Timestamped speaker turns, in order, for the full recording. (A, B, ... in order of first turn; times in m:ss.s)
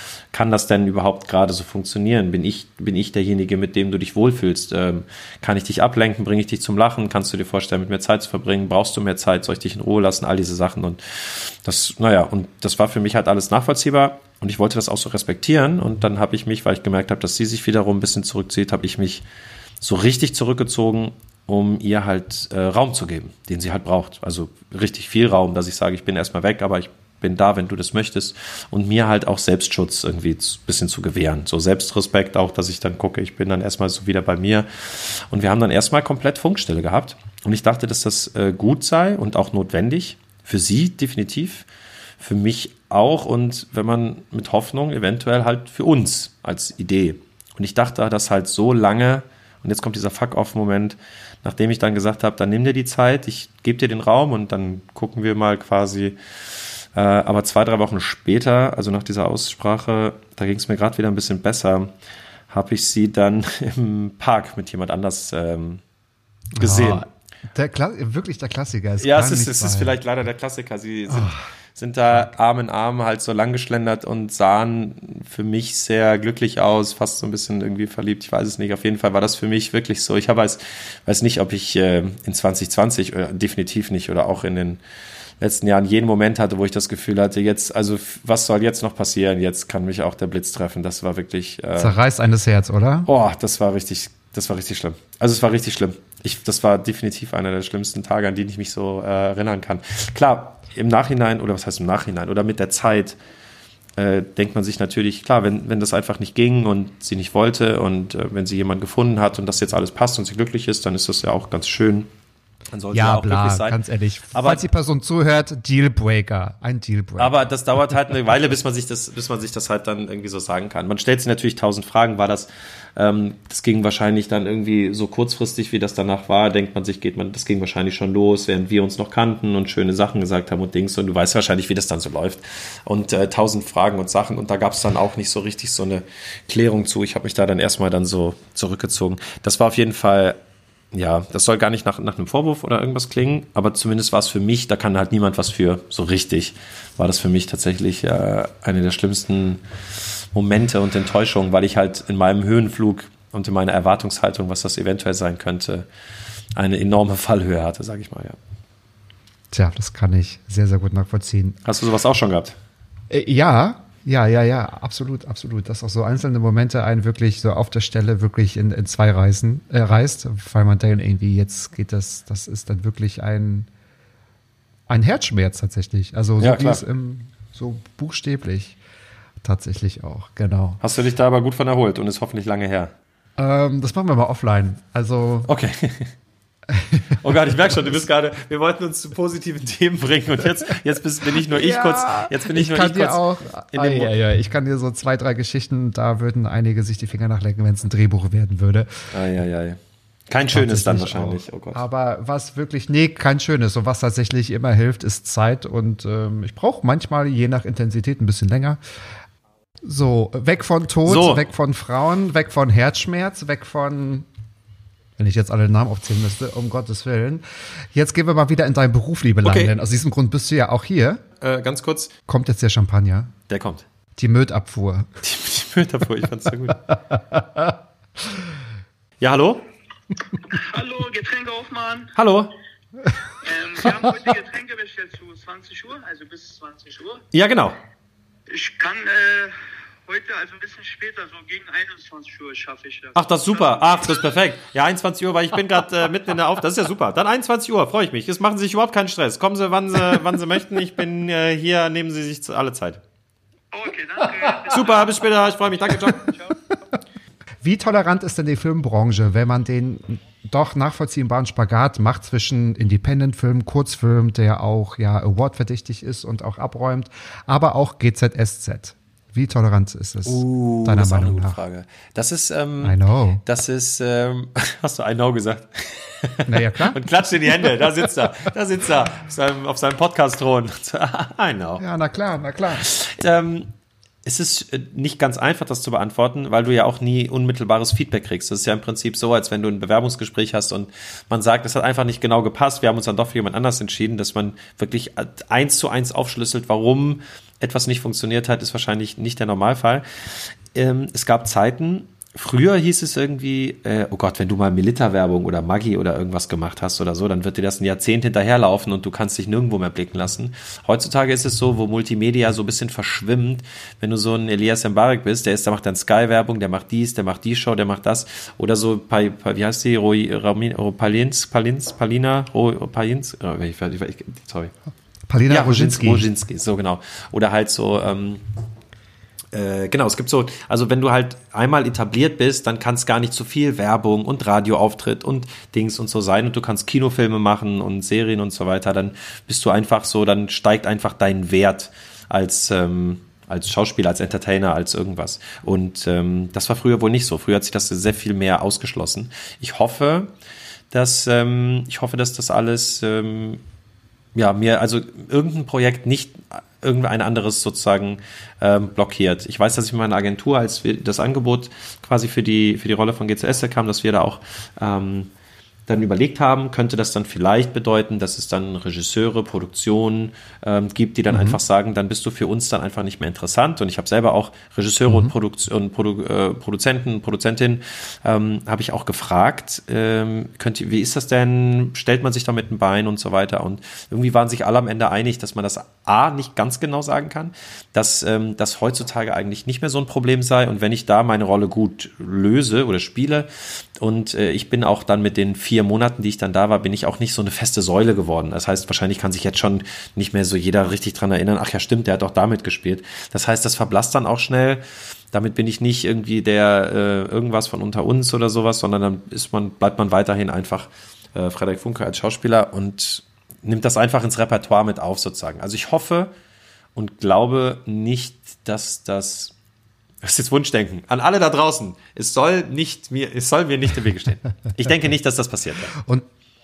0:00.3-0:19.2 A
0:19.8-0:41.7 A
0:42.2-0:56.2 A
0:56.9-1:01.9 A
1:02.5-1:05.8 A
1:06.6-1:10.0 B
1:06.6-1:07.0 A
1:09.0-1:24.8 A
1:11.1-1:11.4 B
1:25.4-1:32.0 A
1:31.8-1:33.1 B
1:33.0-1:43.2 A
1:44.0-1:52.1 A
1:52.7-1:53.8 A
1:52.9-1:57.4 B
1:54.3-1:54.6 A
1:57.2-2:20.4 A
2:20.9-2:29.6 A
2:30.3-2:35.9 A
2:36.6-2:38.4 A
2:39.5-2:41.6 B
2:41.6-2:42.6 A
2:43.1-2:53.7 B
2:54.9-2:58.8 B
2:56.4-2:56.8 A
2:59.4-3:00.8 B
3:00.8-3:02.9 A
3:03.4-3:05.5 B
3:05.5-3:06.1 A
3:06.7-3:07.2 B
3:07.2-3:13.2 A
3:11.3-3:19.1 B
3:13.7-3:14.1 A
3:19.1-3:21.8 A
3:20.5-3:28.8 B
3:29.8-3:34.3 B
3:31.0-3:31.5 A
3:35.2-3:37.4 B
3:37.9-3:41.2 B
3:39.4-3:39.7 A
3:41.4-3:42.1 A
3:42.3-3:43.3 B
3:43.5-3:43.8 A
3:44.2-3:45.1 B
3:45.2-3:46.8 A
3:47.3-3:47.6 B
3:49.2-3:49.6 A
3:50.5-3:52.1 C
3:52.2-3:52.5 A
3:53.3-3:57.2 C
3:57.3-3:57.8 A
3:58.5-4:04.0 C
4:03.1-4:13.0 A
4:13.7-4:15.6 C
4:14.7-4:16.3 A
4:16.1-4:16.5 C
4:17.6-4:31.6 B
4:30.2-4:41.8 A
4:32.8-4:33.4 B
4:36.5-4:37.0 B
4:41.8-4:42.9 B
4:42.7-4:43.7 A
4:44.2-5:00.0 A
5:00.7-5:24.7 A
5:25.3-5:26.2 B
5:25.5-5:28.4 A
5:29.5-5:50.3 A
5:50.9-5:53.6 A
5:54.3-6:05.3 A
6:05.9-6:56.3 A
6:11.3-6:11.6 B
6:56.9-6:59.5 A
7:00.2-7:05.9 A
7:06.0-7:06.2 B